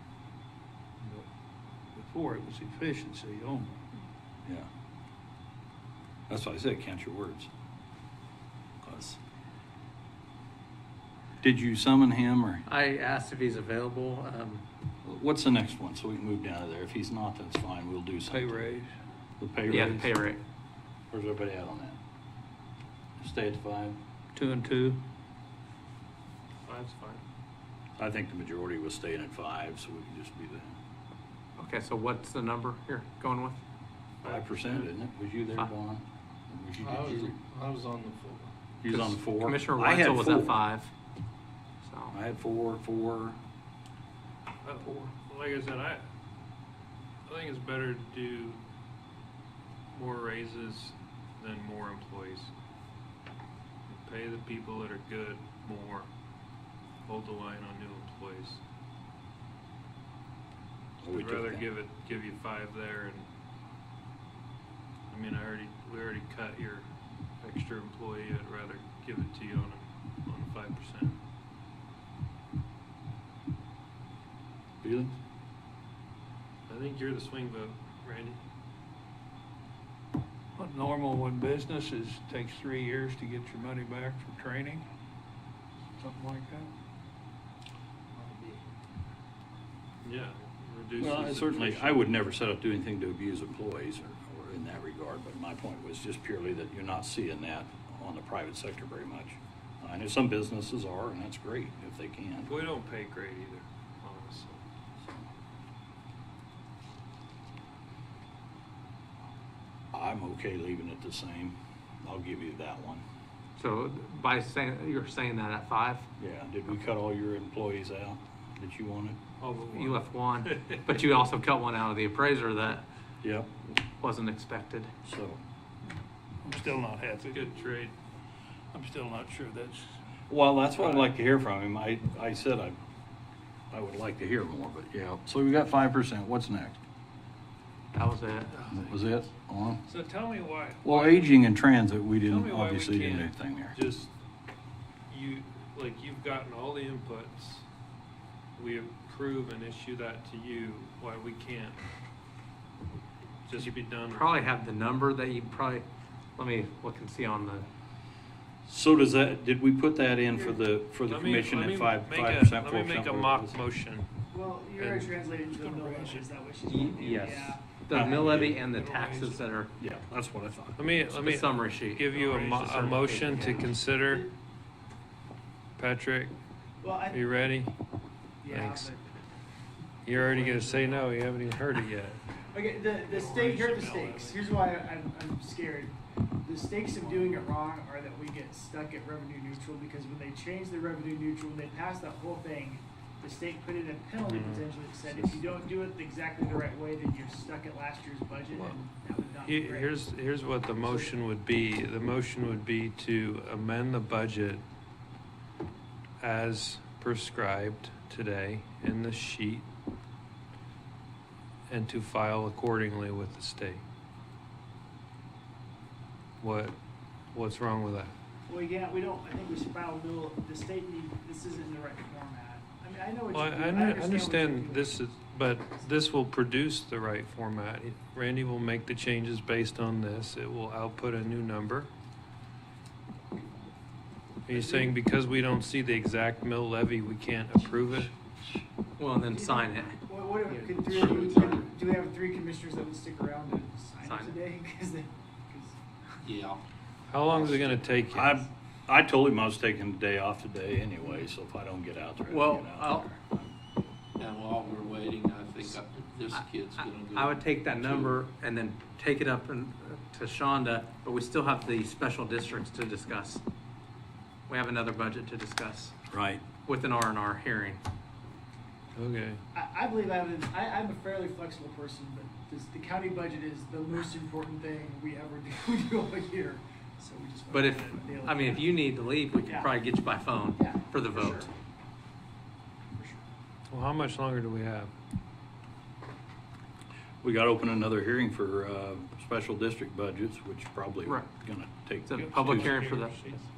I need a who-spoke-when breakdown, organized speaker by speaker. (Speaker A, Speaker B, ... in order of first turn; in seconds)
Speaker A: 1.9-3.9, 18.3-18.9, 24.4-25.0, 80.6-84.9, 86.0-86.7, 88.2-88.5, 126.4-127.6, 128.7-130.0, 168.7-169.4, 292.1-293.4
Speaker B: 6.3-7.5, 8.8-9.2, 11.4-12.6, 15.1-18.7, 19.4-20.1, 21.1-22.0, 23.2-24.0, 28.0-30.8, 34.2-37.4, 38.8-40.6, 42.1-43.4, 61.0-61.7, 74.8-75.2, 91.0-102.5, 109.9-113.0, 116.2-119.2, 123.2-123.7, 125.0-125.4, 130.3-132.8, 133.7-136.8, 138.7-139.8, 140.8-143.8, 158.7-163.6, 167.9-168.6, 169.8-171.1, 248.1-253.6, 266.1-266.4, 287.2-292.8
Speaker C: 12.7-14.6, 19.7-20.4, 31.6-33.6, 38.9-40.9, 41.8-42.1, 113.6-116.1, 119.7-122.9, 124.0-124.9, 137.9-138.6, 153.6-157.7, 166.7-169.7, 171.1-173.7, 239.0-240.0, 240.9-241.3, 244.0-244.4, 252.3-253.1, 256.3-263.4, 264.5-265.9, 266.6-267.8, 277.5-281.5, 292.1-293.3
Speaker D: 26.6-27.2, 34.2-34.9, 44.6-46.0, 47.3-48.6, 49.9-52.5, 53.9-56.1, 57.1-58.6, 61.1-63.3, 65.1-66.9, 67.4-71.2, 76.7-78.4, 90.0-92.0, 102.5-104.6, 119.4-121.2, 127.2-128.0, 139.9-141.4, 142.2-144.1, 145.1-147.7, 148.6-151.8, 153.4-154.4, 161.0-164.1, 164.8-166.2, 170.8-174.3, 175.8-176.4, 177.1-177.7, 178.5-178.9, 180.1-182.2, 183.1-184.5, 194.2-194.7, 198.5-198.8, 199.4-204.6, 206.2-209.7, 211.7-213.8, 216.4-216.8, 217.3-218.1, 223.3-231.9, 234.5-238.1, 247.1-248.5, 268.9-269.4, 283.7-284.9
Speaker E: 36.8-38.5, 240.5-241.7, 246.2-246.6, 247.3-247.8, 254.2-258.2
Speaker F: 160.3-160.6, 164.3-168.4, 173.4-174.3, 176.8-177.3, 178.4-179.1, 180.1-181.2, 182.5-200.0, 200.8-201.2, 218.5-225.0, 234.5-234.9, 239.3-245.8, 269.5-279.7, 280.6-281.5, 283.0-283.2